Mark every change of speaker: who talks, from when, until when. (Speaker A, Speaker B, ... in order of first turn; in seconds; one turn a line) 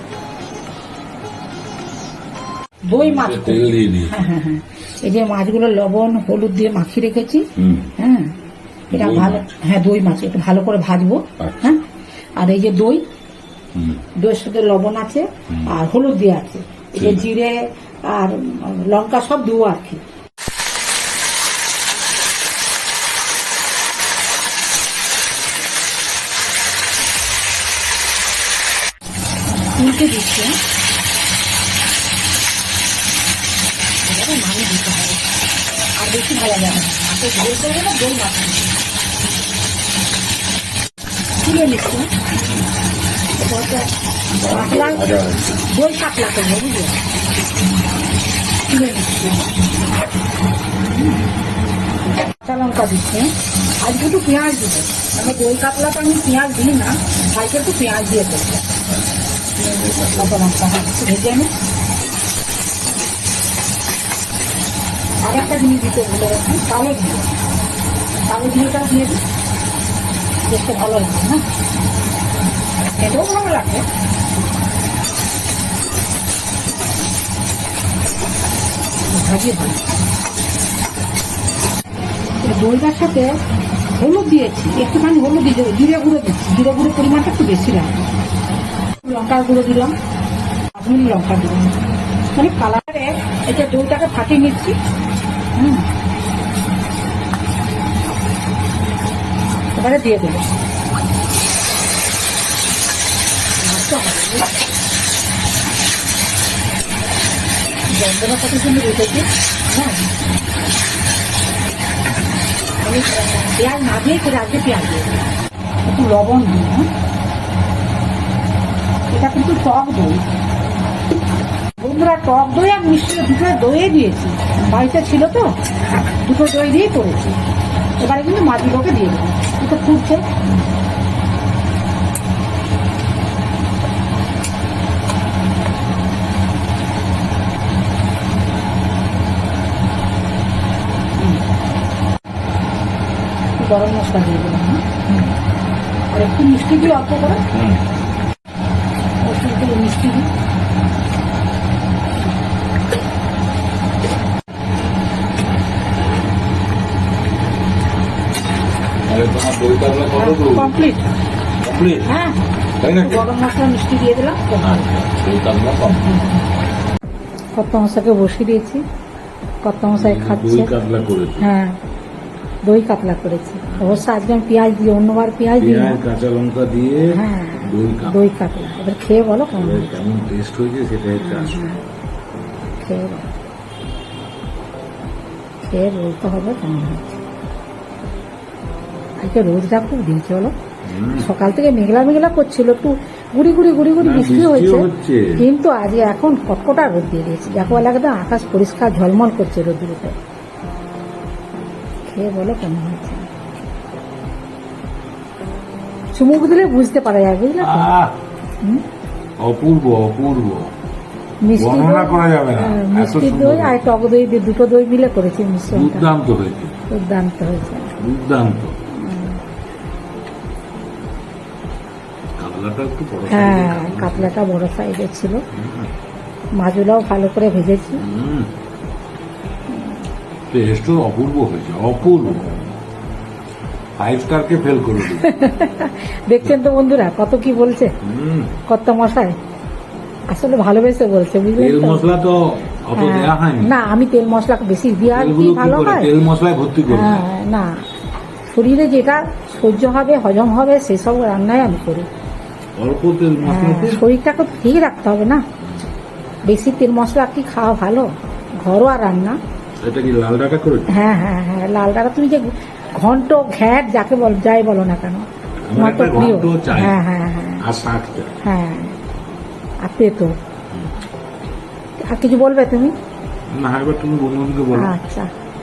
Speaker A: 2.9-8.3
Speaker B: 3.0-4.2
Speaker B: 7.5-7.9
Speaker B: 8.9-9.6
Speaker A: 8.9-11.8
Speaker B: 11.4-11.7
Speaker A: 12.4-13.0
Speaker B: 13.7-14.0
Speaker A: 14.2-20.0
Speaker B: 17.0-17.3
Speaker A: 29.7-30.6
Speaker A: 34.0-35.2
Speaker A: 36.0-38.8
Speaker A: 41.4-42.1
Speaker A: 43.4-43.9
Speaker B: 44.3-45.6
Speaker A: 44.5-47.0
Speaker A: 48.7-49.5
Speaker A: 50.9-51.2
Speaker A: 52.4-58.6
Speaker A: 59.6-61.5
Speaker B: 59.6-60.4
Speaker A: 65.2-67.3
Speaker A: 68.3-69.2
Speaker A: 70.5-71.4
Speaker A: 72.9-73.8
Speaker A: 79.1-79.9
Speaker A: 82.4-83.3
Speaker A: 84.0-88.1
Speaker A: 89.0-89.9
Speaker A: 90.8-91.7
Speaker A: 92.3-94.7
Speaker A: 95.5-95.9
Speaker A: 99.8-100.4
Speaker A: 103.6-104.5
Speaker A: 107.9-110.1
Speaker A: 112.8-115.2
Speaker A: 115.8-116.9
Speaker A: 119.1-120.2
Speaker A: 121.8-127.3
Speaker A: 128.0-130.2
Speaker A: 143.6-144.9
Speaker B: 145.1-145.3
Speaker A: 146.1-147.4
Speaker B: 147.5-147.8
Speaker A: 149.2-150.3
Speaker B: 159.1-160.8
Speaker A: 160.2-161.1
Speaker B: 161.6-162.1
Speaker A: 162.1-162.4
Speaker B: 162.8-163.3
Speaker A: 163.0-164.9
Speaker B: 164.6-166.1
Speaker A: 165.8-166.4
Speaker A: 167.6-168.8
Speaker A: 169.6-170.7
Speaker B: 169.9-171.5
Speaker A: 171.4-171.7
Speaker A: 172.7-176.0
Speaker B: 173.7-174.0
Speaker B: 175.6-178.2
Speaker A: 177.1-180.0
Speaker B: 179.5-181.7
Speaker A: 181.2-181.8
Speaker A: 182.8-183.3
Speaker A: 185.7-187.2
Speaker A: 189.2-190.5
Speaker B: 190.8-191.3
Speaker A: 191.1-200.2
Speaker B: 194.0-195.4
Speaker A: 202.1-203.3
Speaker A: 206.1-207.9
Speaker B: 207.6-208.2
Speaker B: 209.4-210.6
Speaker A: 211.4-216.1
Speaker B: 211.6-213.9
Speaker B: 215.7-216.7
Speaker A: 216.9-217.9
Speaker B: 218.0-218.8
Speaker A: 218.9-219.4
Speaker B: 222.4-224.3
Speaker A: 223.3-225.4
Speaker B: 225.5-225.9
Speaker A: 226.6-228.0
Speaker B: 228.0-228.5
Speaker A: 229.7-230.0
Speaker B: 230.5-232.6
Speaker B: 234.0-235.3
Speaker A: 235.1-237.9
Speaker B: 238.0-238.5
Speaker A: 238.7-239.3
Speaker A: 240.3-242.1
Speaker B: 241.6-243.7
Speaker A: 242.9-246.1
Speaker B: 245.0-247.2
Speaker A: 246.9-247.8
Speaker A: 248.5-252.1
Speaker B: 252.8-254.0
Speaker A: 253.4-255.4
Speaker B: 255.6-255.9
Speaker A: 256.5-259.4
Speaker B: 259.8-261.0
Speaker A: 260.9-267.6
Speaker B: 265.6-267.0
Speaker B: 267.6-268.3
Speaker A: 268.4-268.9
Speaker A: 269.8-270.3
Speaker A: 272.1-272.9
Speaker B: 273.5-275.0
Speaker A: 274.7-275.3